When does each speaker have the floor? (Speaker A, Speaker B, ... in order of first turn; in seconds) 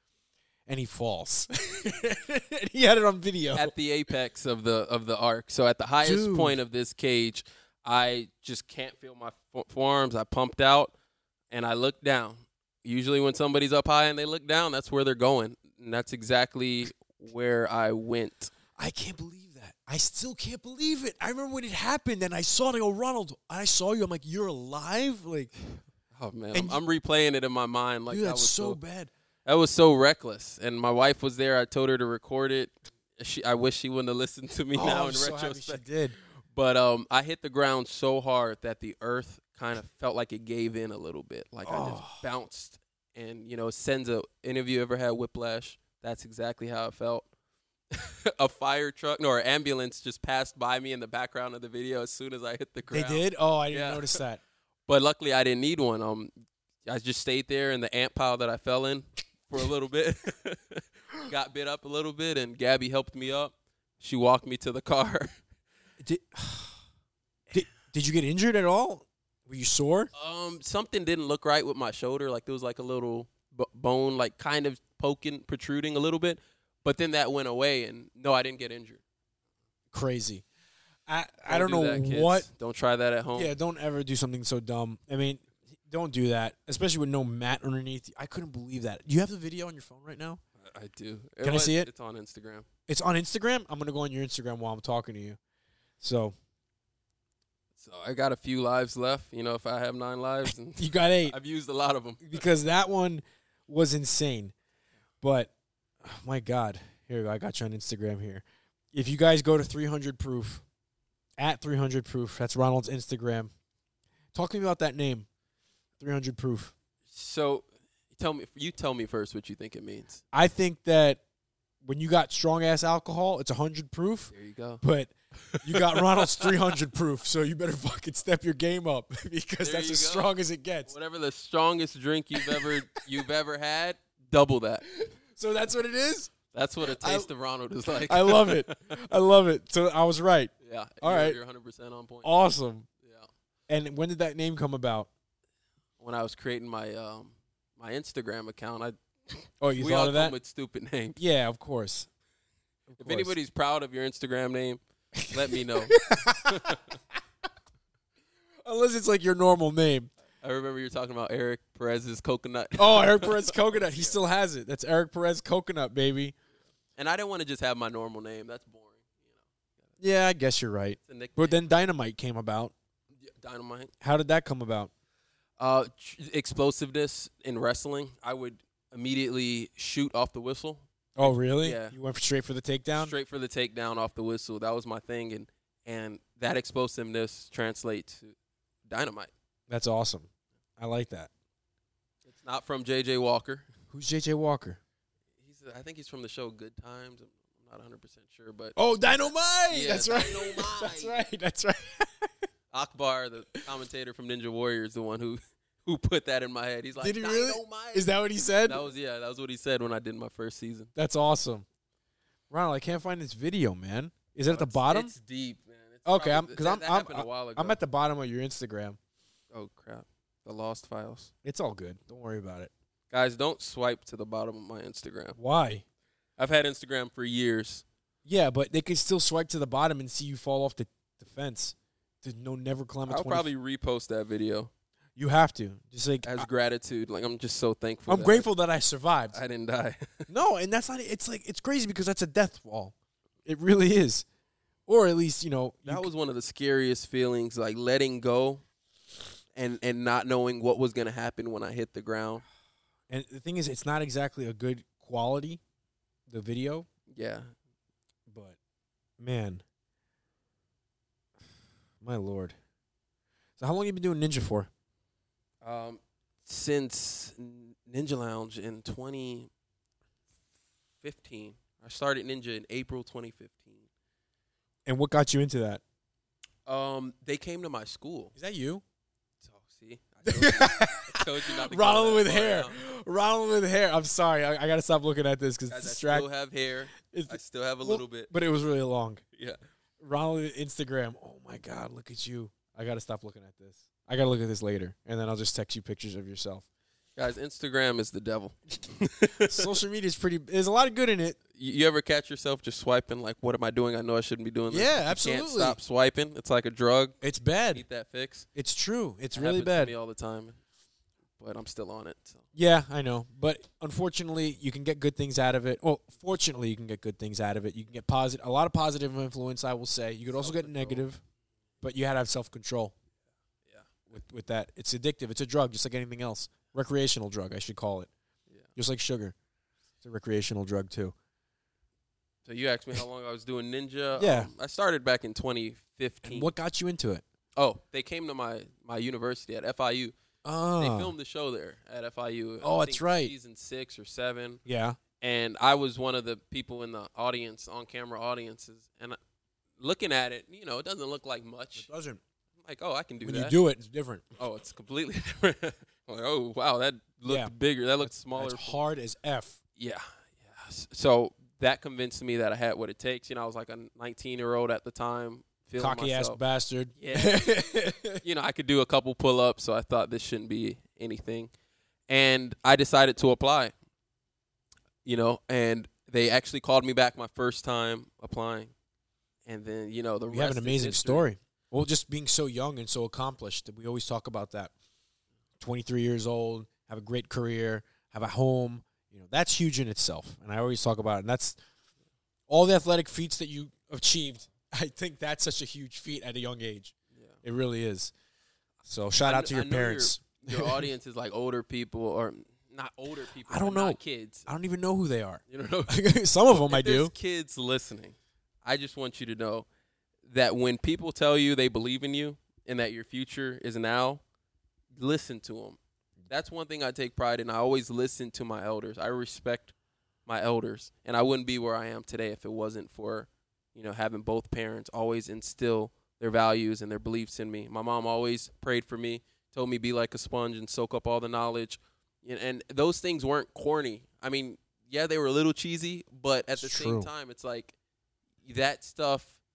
Speaker A: 0.7-3.7, 6.0-6.6, 18.8-25.5, 26.5-26.8, 28.1-29.1, 34.7-36.2, 41.6-42.2, 52.9-54.4, 66.0-66.8, 67.5-70.1, 79.9-80.4, 81.1-82.5, 83.3-90.4, 91.4-91.9, 92.9-95.4, 96.0-96.3, 100.8-101.3, 102.2-104.5, 105.2-105.5, 106.0-110.6, 111.4-113.5, 114.3-115.3, 116.0-116.7, 120.3-121.2, 121.8-130.9, 132.3-132.8, 134.9-137.3, 137.9-141.4, 142.2-142.9, 143.7-145.1, 149.6-150.4, 151.2-152.1, 152.9-153.3, 155.2-156.8, 158.6-160.1, 162.8-166.3, 170.0-172.7, 174.0-174.9, 181.2-183.1, 189.7-191.3, 193.9-194.8, 198.8-202.3, 207.0-208.8, 210.9-211.7, 212.5-215.1, 216.1-219.0, 221.4-222.7, 225.4-225.8, 228.2-233.5, 235.2-236.5, 238.1-239.4, 240.3-242.9, 243.4-244.2, 244.9-246.1, 253.1-255.6, 256.3-256.9, 258.3-258.6, 259.2-259.6, 262.0-262.6, 263.6-264.7, 274.9-275.8, 278.4-278.8, 280.2-286.3, 287.0-289.2, 290.0-296.6, 299.4-301.4, 304.7-305.8, 307.2-307.8, 308.6-309.9, 312.6-321.2, 321.8-322.9, 324.1-328.1, 328.8-329.3, 330.0-331.1, 334.2-334.5, 336.2-337.2, 340.4-341.1, 342.6-343.3, 344.6-345.0, 351.8-352.2, 353.2-354.2, 357.3-359.6, 365.8-368.2, 380.3-384.7, 385.6-391.6, 392.5-398.1, 398.8-400.9, 403.5-407.1, 436.6-437.1
Speaker B: 3.5-10.9, 11.5-18.5, 26.1-28.8, 29.4-35.8, 36.5-47.3, 47.9-54.2, 54.9-56.3, 56.9-65.3, 70.1-79.0, 81.5-83.5, 90.6-92.7, 97.8-102.4, 117.1-120.2, 124.3-124.8, 125.5-126.7, 129.6-130.3, 130.9-134.9, 136.5-138.9, 140.6-142.3, 143.0-143.3, 146.0-151.2, 153.0-156.9, 160.4-164.2, 167.0-169.4, 171.1-171.6, 173.2-173.9, 175.6-181.9, 182.9-188.3, 188.9-189.3, 192.2-193.7, 195.4-198.7, 199.7-201.2, 202.7-208.1, 208.6-210.9, 214.5-217.8, 219.5-221.3, 223.1-225.4, 226.4-227.8, 233.1-234.7, 236.2-238.5, 239.3-240.3, 245.9-248.6, 249.6-252.4, 257.1-257.5, 265.6-269.5, 271.0-273.9, 276.6-278.3, 279.4-282.8, 285.7-288.3, 297.1-299.7, 301.6-307.2, 307.7-308.4, 309.3-310.6, 311.4-312.4, 320.3-321.1, 332.4-336.5, 337.6-340.1, 340.8-344.6, 345.2-349.2, 349.8-351.9, 352.6-353.6, 354.4-358.8, 359.8-366.4, 366.9-371.5, 372.1-373.7, 375.1-378.7, 379.4-381.3, 399.2-404.5, 405.5-405.9, 406.5-409.7, 410.2-414.2, 414.9-415.8, 416.3-419.7, 420.2-437.7, 438.4-439.4